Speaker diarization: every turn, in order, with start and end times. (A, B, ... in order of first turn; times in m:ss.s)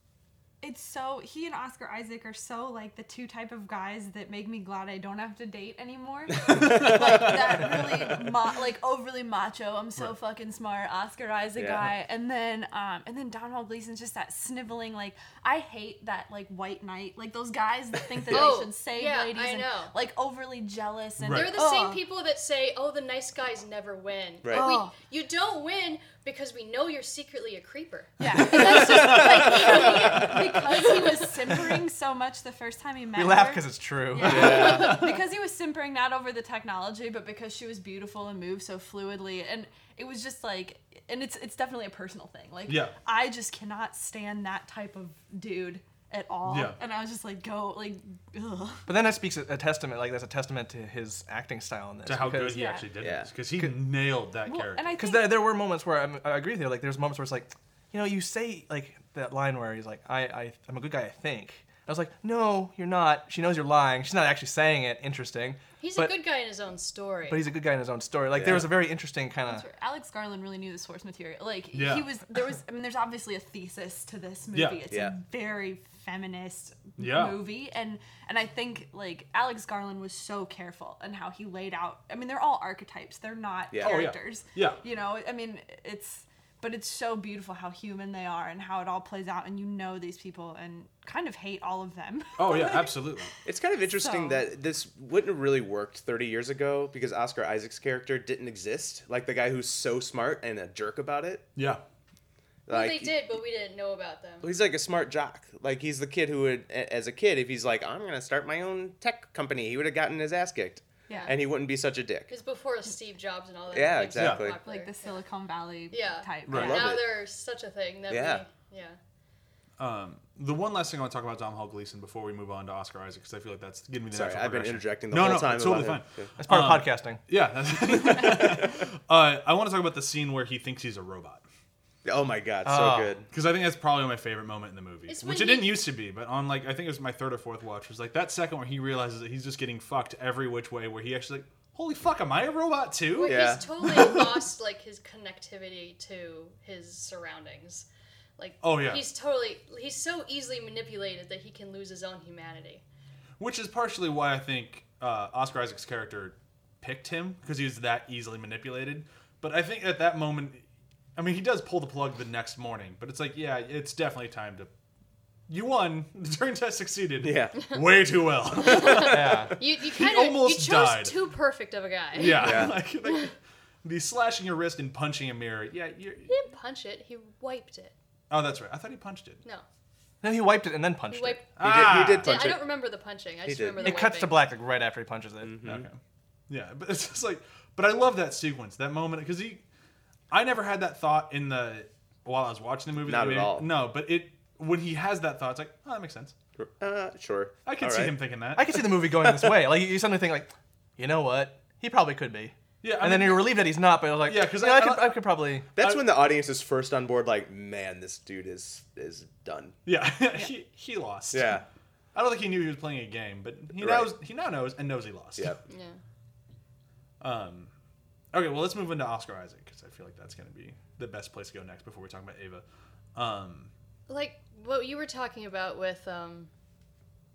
0:00.6-0:22.0 A
0:11.6-0:11.9 B
0:18.3-0:19.9 C
0:21.2-0:21.5 D
0:21.3-0:31.2 C
0:24.4-0:24.8 B
0:24.5-0:24.9 A
0:28.2-0:48.8 A
0:28.9-0:29.3 D
0:33.1-0:35.0 E
0:34.2-0:34.9 B
0:34.5-0:35.2 D
0:42.7-0:43.0 D
0:46.5-0:46.8 D
0:48.9-0:52.6 E
0:52.0-0:55.0 D
0:52.5-0:52.9 A
0:53.0-0:53.3 B
0:54.4-0:55.3 A
0:55.0-1:06.2 E
1:05.8-1:07.4 C
1:07.3-1:09.6 E
1:08.3-1:08.7 B
1:09.4-1:33.0 A
1:11.7-1:12.1 D
1:14.5-1:14.8 D
1:14.9-1:15.2 B
1:17.0-1:17.5 D
1:23.7-1:24.1 B
1:23.8-1:24.8 D
1:32.4-1:33.3 D
1:33.4-1:41.4 B
1:33.8-1:34.4 A
1:41.6-1:41.8 D
1:42.7-1:43.1 B
1:42.7-1:44.5 C
1:44.4-1:52.3 B
1:51.1-1:51.3 A
1:52.3-1:55.1 C
1:53.7-1:54.6 B
1:54.2-1:54.4 D
1:54.6-1:56.9 A
1:55.9-1:59.0 C
1:56.5-1:56.8 D
1:56.5-1:57.1 B
1:58.1-1:58.4 B
1:59.8-2:11.4 D
2:04.1-2:06.3 B
2:06.4-2:07.2 E
2:12.0-2:13.3 B
2:12.6-2:13.1 E
2:13.3-2:24.2 D
2:15.1-2:15.8 C
2:23.1-2:27.9 C
2:23.2-2:24.2 B
2:28.4-2:32.8 C
2:28.6-2:29.0 D
2:33.4-2:40.6 D
2:41.2-2:44.7 D
2:45.5-2:51.1 D
2:47.2-2:47.7 B
2:48.6-2:49.3 B
2:48.6-2:53.2 C
2:49.1-2:49.5 E
2:52.1-2:56.3 D
2:52.3-2:52.8 B
2:56.3-2:57.9 C
2:58.3-2:59.4 D
3:00.2-3:01.4 E
3:01.1-3:01.5 C
3:01.6-3:02.4 D
3:01.6-3:02.6 B
3:02.2-3:04.5 C
3:03.4-3:04.0 B
3:03.8-3:05.7 E
3:05.4-3:05.8 B
3:05.6-3:06.0 D
3:06.5-3:09.6 D
3:10.3-3:16.3 D
3:13.0-3:13.7 B
3:16.6-3:18.2 B
3:17.6-3:18.8 D
3:18.6-3:25.7 E
3:19.1-3:19.6 B
3:22.8-3:23.6 D
3:24.2-3:26.1 D
3:25.7-3:29.8 B
3:29.8-3:31.6 D
3:31.3-3:31.6 B
3:32.1-3:35.6 D
3:33.8-3:34.1 B
3:35.7-3:36.0 C
3:37.2-3:37.7 D
3:38.3-3:42.6 D
3:43.1-3:43.7 D
3:44.1-3:46.5 C